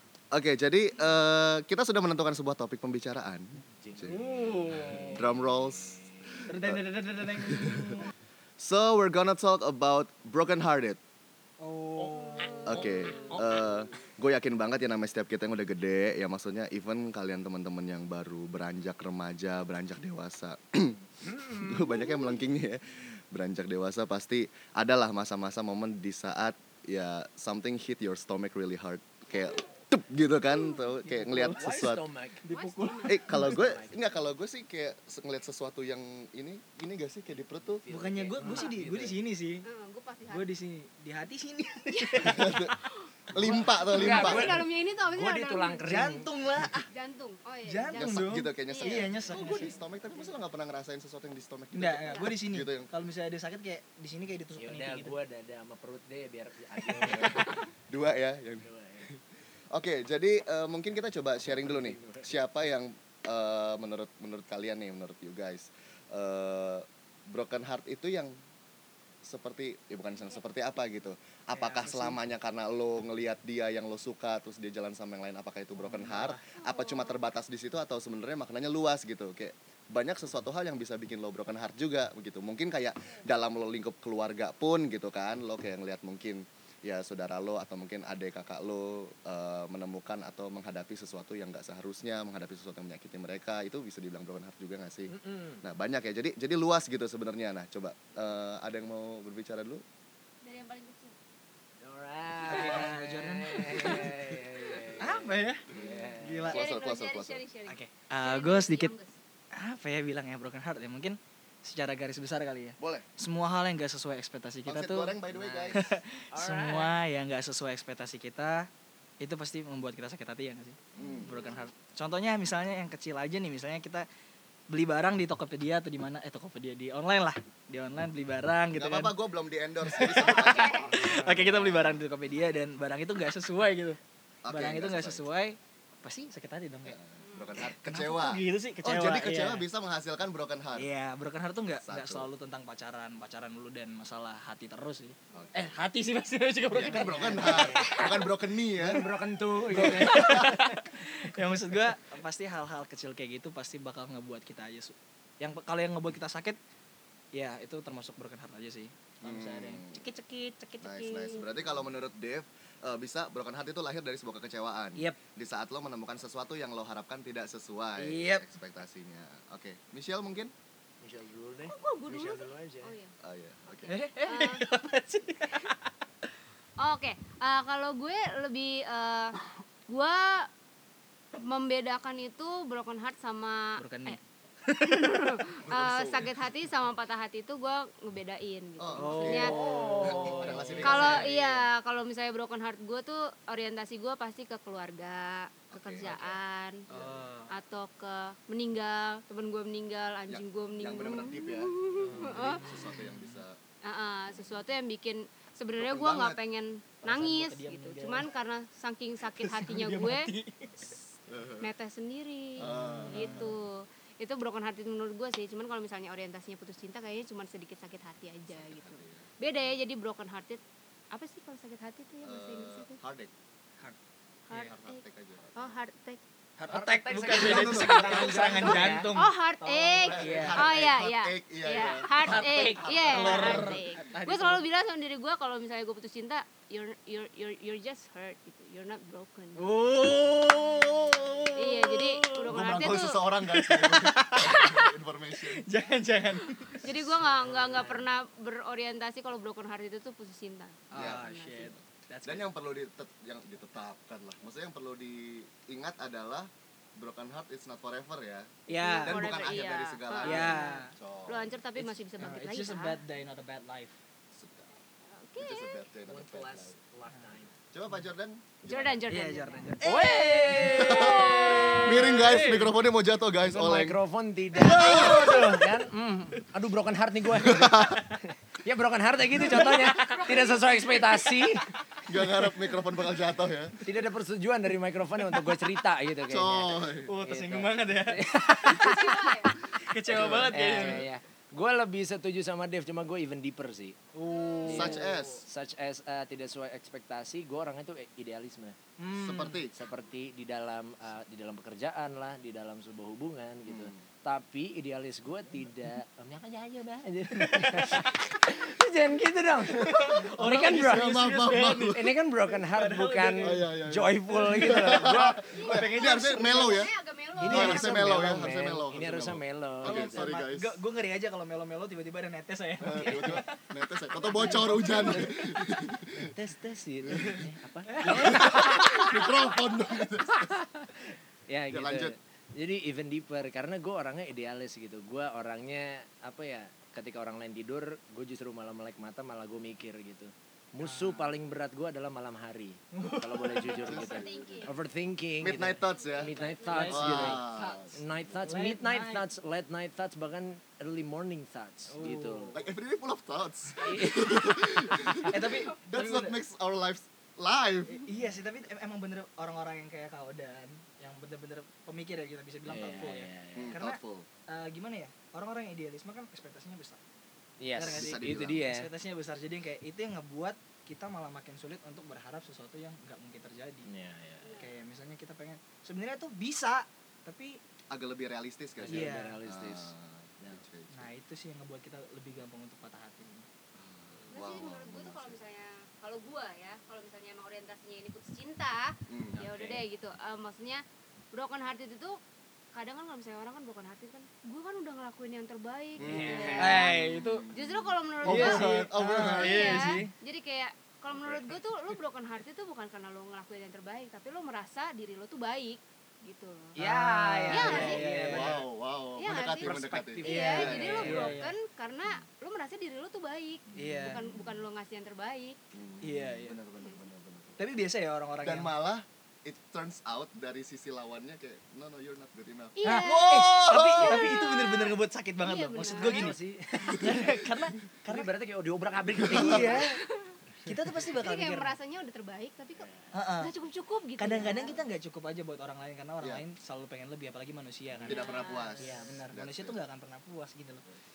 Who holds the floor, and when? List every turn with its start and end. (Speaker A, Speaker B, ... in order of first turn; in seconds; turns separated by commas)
Speaker A: 0.3-4.3, Speaker B: 3.8-6.4, Speaker C: 4.1-5.2, Speaker A: 5.1-8.0, Speaker C: 6.5-8.1, Speaker A: 8.6-11.0, Speaker C: 11.6-13.6, Speaker B: 12.1-13.9, Speaker D: 12.3-13.4, Speaker A: 12.7-32.1, Speaker B: 21.2-21.9, Speaker D: 22.0-22.3, Speaker C: 31.1-31.9, Speaker B: 31.5-32.4, Speaker C: 32.4-33.6, Speaker D: 32.5-33.5, Speaker A: 33.0-37.8, Speaker B: 33.3-34.3, Speaker B: 37.8-39.2, Speaker C: 37.9-39.6, Speaker D: 39.6-40.5, Speaker C: 40.3-42.6, Speaker D: 41.9-42.9, Speaker A: 42.2-42.8, Speaker A: 43.3-44.7, Speaker C: 43.4-43.8, Speaker B: 43.4-46.6, Speaker D: 43.9-46.1, Speaker C: 45.8-46.9, Speaker D: 46.9-49.7, Speaker C: 47.6-49.7, Speaker A: 47.9-52.9, Speaker C: 51.7-55.1, Speaker B: 54.6-57.6, Speaker A: 57.0-59.2, Speaker B: 58.6-59.1, Speaker A: 59.7-68.3, Speaker B: 61.4-62.3, Speaker A: 69.2-99.8, Speaker C: 71.5-72.2, Speaker C: 75.8-76.4, Speaker D: 76.6-77.2, Speaker B: 95.1-95.6, Speaker D: 100.4-101.2, Speaker B: 101.8-106.6, Speaker C: 102.4-104.3, Speaker C: 105.0-105.7, Speaker A: 105.7-107.4, Speaker C: 106.2-106.6, Speaker D: 106.5-109.2, Speaker C: 107.7-108.9, Speaker C: 109.5-115.2, Speaker A: 112.8-113.0, Speaker A: 114.7-115.9, Speaker B: 115.3-116.9, Speaker C: 115.7-118.7, Speaker C: 119.2-124.0, Speaker A: 121.0-121.4, Speaker C: 124.7-129.1, Speaker A: 128.7-132.0, Speaker C: 129.8-137.0, Speaker D: 130.1-131.1, Speaker B: 130.4-131.6, Speaker A: 134.4-135.3, Speaker A: 136.8-140.9, Speaker D: 137.2-137.6, Speaker C: 137.6-139.7, Speaker C: 140.7-148.1, Speaker A: 141.8-142.3, Speaker A: 145.3-145.8, Speaker A: 146.7-149.1, Speaker B: 147.1-148.0, Speaker D: 147.8-148.1, Speaker B: 148.8-150.9, Speaker C: 149.7-156.6, Speaker A: 150.1-150.5, Speaker C: 157.3-161.6, Speaker A: 159.2-160.0, Speaker A: 160.8-170.5, Speaker C: 168.0-168.4, Speaker B: 171.0-172.9, Speaker D: 171.7-173.1, Speaker A: 173.2-173.9, Speaker C: 173.9-175.9, Speaker D: 174.2-174.7, Speaker D: 176.8-180.5, Speaker D: 181.3-184.2, Speaker C: 183.8-185.3, Speaker D: 184.8-189.6, Speaker A: 185.7-186.3, Speaker A: 188.8-191.6, Speaker C: 188.9-191.2, Speaker B: 189.3-191.3, Speaker D: 190.8-196.8, Speaker A: 195.7-196.4, Speaker A: 196.9-197.2, Speaker C: 196.9-197.5, Speaker D: 197.5-202.9, Speaker A: 200.3-203.6, Speaker C: 202.0-203.4, Speaker D: 203.8-210.3, Speaker A: 204.3-204.7, Speaker A: 205.8-206.4, Speaker C: 207.0-208.3, Speaker C: 209.4-210.9, Speaker A: 211.3-211.7, Speaker D: 211.6-223.0, Speaker C: 212.6-213.5, Speaker A: 212.6-213.6, Speaker A: 218.5-219.3, Speaker A: 222.2-223.3, Speaker D: 224.5-225.0, Speaker A: 224.5-225.8, Speaker D: 225.5-226.2, Speaker C: 226.6-229.3, Speaker B: 226.7-229.1, Speaker A: 227.3-228.8, Speaker D: 227.4-239.6, Speaker A: 229.9-233.8, Speaker C: 230.0-230.7, Speaker C: 232.2-234.7, Speaker C: 239.6-244.7, Speaker D: 241.5-243.2, Speaker A: 242.5-245.7, Speaker D: 244.4-244.9, Speaker C: 245.6-248.0, Speaker D: 246.7-251.7, Speaker C: 250.9-252.5, Speaker A: 250.9-261.6, Speaker C: 258.7-259.3, Speaker D: 258.7-263.0, Speaker C: 260.2-260.9, Speaker C: 261.8-264.0, Speaker A: 264.3-264.7, Speaker D: 265.1-265.8, Speaker A: 265.4-266.7, Speaker B: 266.1-267.6, Speaker A: 267.7-269.1, Speaker D: 268.6-272.0, Speaker C: 269.1-272.7, Speaker B: 269.8-271.8, Speaker A: 270.6-274.0, Speaker B: 273.4-281.6, Speaker A: 274.5-275.6, Speaker D: 274.7-275.1, Speaker C: 274.8-275.6, Speaker A: 277.3-278.0, Speaker D: 279.4-281.3, Speaker C: 279.7-280.1, Speaker A: 282.1-283.8, Speaker C: 282.4-282.6, Speaker B: 283.8-289.1, Speaker A: 286.3-287.1, Speaker C: 287.1-291.0, Speaker D: 288.6-289.6, Speaker A: 290.1-291.1, Speaker B: 290.1-294.0, Speaker C: 294.1-295.1, Speaker D: 294.3-294.9, Speaker B: 294.6-298.8, Speaker A: 294.7-295.4, Speaker C: 299.0-299.6, Speaker A: 299.1-299.9, Speaker B: 299.8-311.2, Speaker A: 303.7-304.0, Speaker C: 307.4-308.1, Speaker C: 309.8-311.9, Speaker A: 310.5-312.1, Speaker B: 311.8-315.4, Speaker C: 312.6-313.6, Speaker A: 313.4-316.9, Speaker C: 314.3-316.8, Speaker D: 315.5-318.4, Speaker B: 317.4-320.1, Speaker A: 317.5-320.8, Speaker C: 319.8-323.6, Speaker A: 322.8-326.3, Speaker B: 322.9-323.4, Speaker D: 324.1-325.2, Speaker B: 324.5-325.5, Speaker B: 326.1-329.3, Speaker A: 327.1-327.4, Speaker C: 327.9-328.5, Speaker A: 328.0-330.5, Speaker B: 330.3-352.6, Speaker A: 331.7-332.1, Speaker C: 340.8-341.3, Speaker C: 342.9-343.7, Speaker D: 343.6-344.8, Speaker A: 343.8-344.7, Speaker A: 345.4-347.9, Speaker D: 345.9-347.0, Speaker C: 346.7-349.2, Speaker C: 351.9-352.6, Speaker A: 352.5-358.0, Speaker B: 353.8-355.4, Speaker D: 353.9-354.2, Speaker C: 355.3-356.4, Speaker C: 357.9-367.0, Speaker B: 362.7-363.8, Speaker A: 363.5-364.2, Speaker B: 367.6-368.9, Speaker C: 367.7-373.9, Speaker A: 367.8-368.7, Speaker B: 373.9-374.6, Speaker D: 374.4-374.7, Speaker C: 374.6-377.6, Speaker A: 377.9-381.1, Speaker B: 378.8-380.6, Speaker C: 378.8-379.4, Speaker C: 380.9-383.4, Speaker A: 383.7-385.4, Speaker D: 384.3-392.2, Speaker A: 389.1-389.4, Speaker B: 389.3-389.8, Speaker D: 392.7-397.0, Speaker A: 396.0-400.0, Speaker B: 396.0-396.9, Speaker C: 396.6-397.4, Speaker D: 397.5-406.8, Speaker C: 398.2-400.1, Speaker C: 406.8-408.6, Speaker B: 406.8-408.6, Speaker D: 407.5-408.0, Speaker A: 407.7-411.4, Speaker D: 409.1-415.6, Speaker B: 409.4-411.4, Speaker C: 410.2-411.5, Speaker B: 413.7-414.0, Speaker C: 413.8-414.2, Speaker A: 414.1-414.6, Speaker A: 415.7-417.6, Speaker C: 416.0-416.6, Speaker C: 417.6-418.7, Speaker A: 418.4-424.4, Speaker D: 422.8-426.3, Speaker C: 422.8-428.3, Speaker B: 425.9-427.4, Speaker B: 428.0-429.9, Speaker A: 429.1-429.8, Speaker C: 429.2-430.0, Speaker D: 429.9-430.4, Speaker C: 430.6-431.7, Speaker D: 431.1-434.8, Speaker B: 432.8-433.1, Speaker C: 433.1-433.5, Speaker C: 434.2-440.8, Speaker B: 438.0-439.0, Speaker A: 438.0-439.8, Speaker D: 438.1-438.8